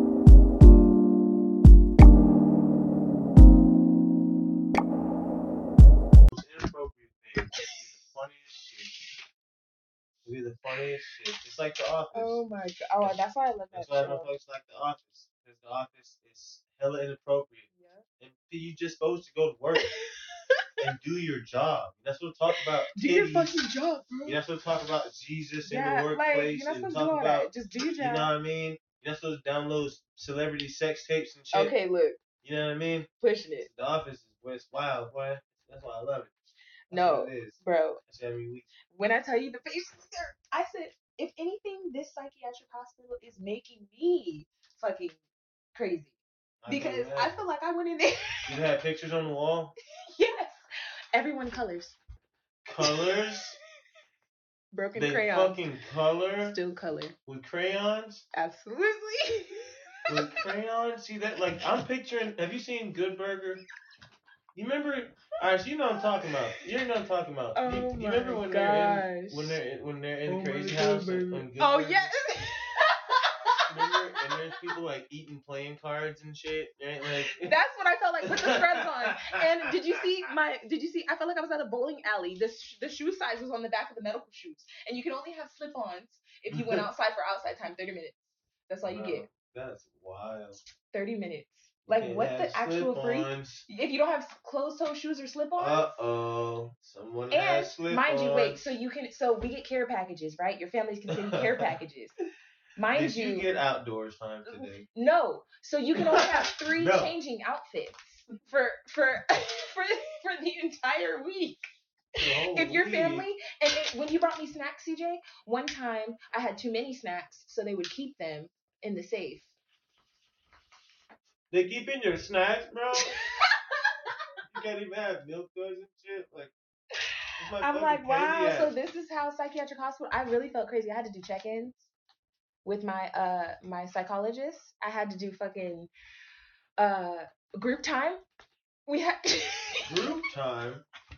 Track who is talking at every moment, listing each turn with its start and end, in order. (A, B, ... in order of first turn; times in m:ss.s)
0:06.3-0:08.9 A
0:10.2-0:12.4 A
0:12.1-0:14.3 B
0:13.7-0:17.7 A
0:17.7-0:18.0 B
0:18.2-0:19.9 A
0:20.8-0:23.6 A
0:22.9-0:24.4 B
0:24.2-0:31.8 A
0:25.6-0:28.3 B
0:31.5-0:32.2 B
0:32.4-0:33.1 A
0:33.2-0:33.7 B
0:33.6-0:36.3 A
0:36.9-0:38.0 B
0:36.9-0:38.7 A
0:38.9-0:45.2 B
0:45.7-0:48.6 B
0:46.6-0:47.4 A
0:48.5-0:49.7 A
0:50.1-0:50.6 B
0:51.1-0:52.0 B
0:52.6-0:53.6 A
0:52.8-0:53.1 B
0:54.7-0:55.6 B
0:54.9-0:56.6 A
0:56.4-0:57.2 B
0:57.2-0:58.2 A
0:58.3-1:00.4 B
1:00.1-1:03.6 A
1:04.5-1:12.1 A
1:07.5-1:09.6 B
1:10.3-1:13.6 B
1:13.6-1:17.6 A
1:17.3-1:29.3 B
1:18.2-1:19.2 A
1:26.5-1:26.8 A
1:28.8-1:30.6 A
1:30.9-1:36.0 B
1:31.9-1:33.7 A
1:35.6-1:38.8 A
1:37.3-1:42.1 B
1:41.1-1:41.7 A
1:42.8-1:43.5 B
1:42.9-1:44.8 A
1:44.5-1:51.6 B
1:46.0-1:47.1 A
1:52.2-1:53.3 A
1:52.5-1:59.5 B
2:01.5-2:03.2 A
2:03.2-2:03.9 B
2:04.5-2:06.5 A
2:07.4-2:08.7 A
2:07.6-2:11.9 B
2:12.6-2:15.9 B
2:16.8-2:18.2 B
2:18.9-2:20.1 B
2:19.8-2:20.8 A